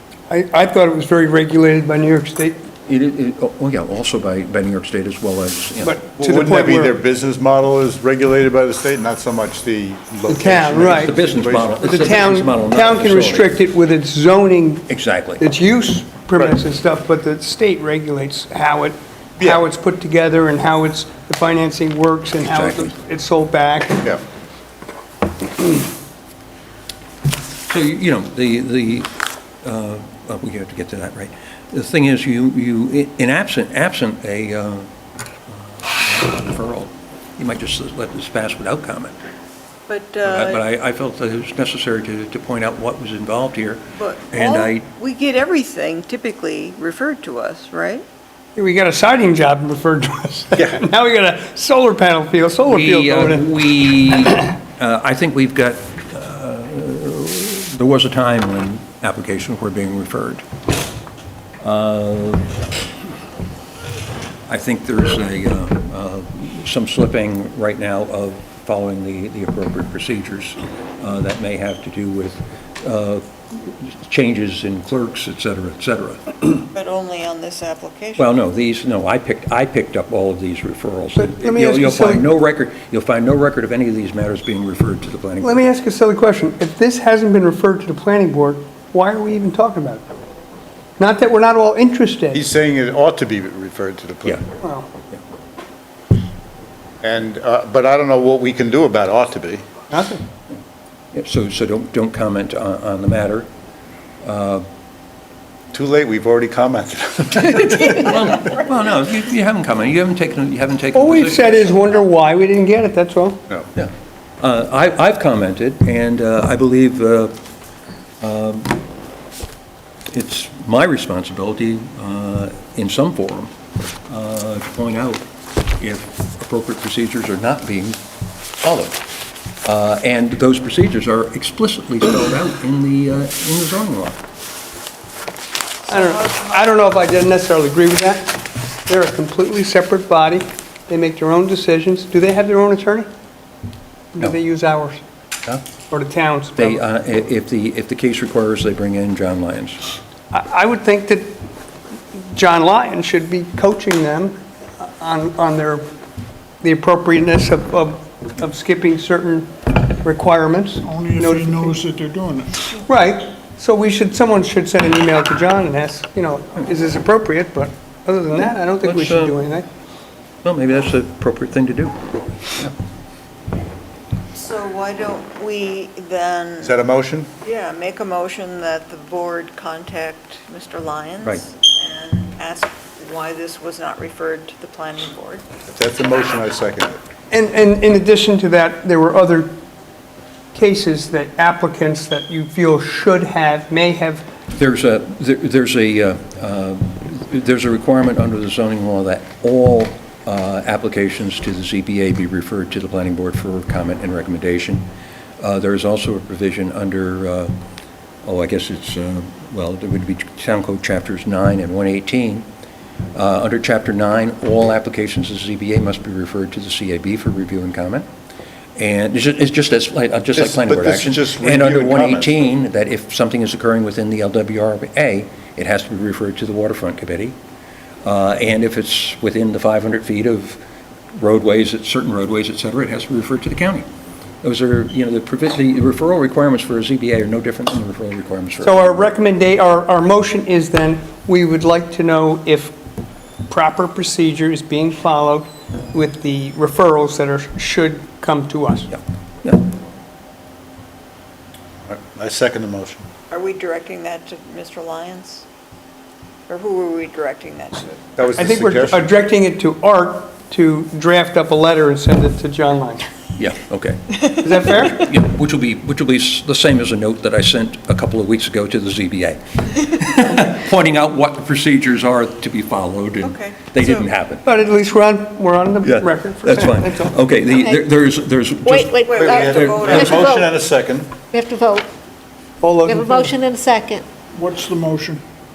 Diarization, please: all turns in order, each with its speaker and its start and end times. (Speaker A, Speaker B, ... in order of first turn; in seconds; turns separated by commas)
Speaker A: 0.3-2.6, Speaker B: 2.9-6.0, Speaker A: 5.8-6.9, Speaker C: 6.2-11.8, Speaker A: 10.3-11.2, Speaker B: 10.9-13.6, Speaker A: 11.8-14.9, Speaker B: 14.9-15.5, Speaker A: 15.4-24.1, Speaker B: 22.4-23.0, Speaker B: 27.7-29.1, Speaker B: 29.6-34.9, Speaker B: 35.5-39.2, Speaker D: 39.9-40.6, Speaker B: 40.2-44.9, Speaker D: 43.9-48.0, Speaker A: 48.6-53.5, Speaker B: 52.6-60.4, Speaker B: 61.6-62.6, Speaker B: 64.5-76.7, Speaker D: 76.7-78.3, Speaker B: 78.2-85.6, Speaker A: 81.2-82.3, Speaker A: 85.4-90.1, Speaker A: 91.0-92.4, Speaker C: 92.3-94.4, Speaker A: 94.6-94.9, Speaker C: 97.0-99.7, Speaker A: 99.9-100.2, Speaker B: 101.1-103.5, Speaker B: 104.2-104.7, Speaker C: 105.7-108.0, Speaker B: 107.6-112.0, Speaker A: 110.9-113.4, Speaker B: 113.8-117.4, Speaker B: 118.2-118.8, Speaker B: 120.1-123.5, Speaker B: 124.1-125.3, Speaker B: 125.8-128.0, Speaker B: 128.6-129.0, Speaker B: 129.6-134.2, Speaker D: 135.9-136.7, Speaker A: 135.9-143.1, Speaker A: 144.1-145.0, Speaker A: 145.9-146.8, Speaker B: 146.6-149.8, Speaker A: 150.3-151.4, Speaker A: 152.1-155.9, Speaker A: 156.6-159.5, Speaker A: 160.0-161.8, Speaker E: 160.8-162.6, Speaker A: 162.8-169.7, Speaker B: 168.4-169.4, Speaker B: 170.4-172.7, Speaker D: 174.3-176.7, Speaker C: 176.6-177.3, Speaker D: 177.4-185.5, Speaker C: 185.7-187.0, Speaker A: 187.3-189.6, Speaker A: 190.5-194.2, Speaker B: 194.5-204.9, Speaker B: 205.4-207.6, Speaker B: 208.2-212.5, Speaker B: 213.1-218.1, Speaker B: 218.8-227.4, Speaker C: 220.4-222.4, Speaker B: 228.0-230.6, Speaker B: 231.1-233.9, Speaker B: 234.4-239.0, Speaker A: 238.6-242.8, Speaker A: 243.5-248.9, Speaker B: 248.9-249.6, Speaker C: 251.8-253.1, Speaker D: 253.3-255.4, Speaker D: 256.5-258.1, Speaker C: 258.2-259.1, Speaker A: 258.4-263.1, Speaker B: 263.4-274.5, Speaker A: 264.4-265.1, Speaker D: 273.2-274.1, Speaker A: 274.4-277.1, Speaker B: 275.8-280.2, Speaker F: 277.5-277.8, Speaker F: 278.6-280.5, Speaker D: 279.0-280.5, Speaker C: 279.1-281.1, Speaker F: 281.3-281.9, Speaker A: 282.6-283.4, Speaker F: 282.8-284.1, Speaker E: 284.3-285.2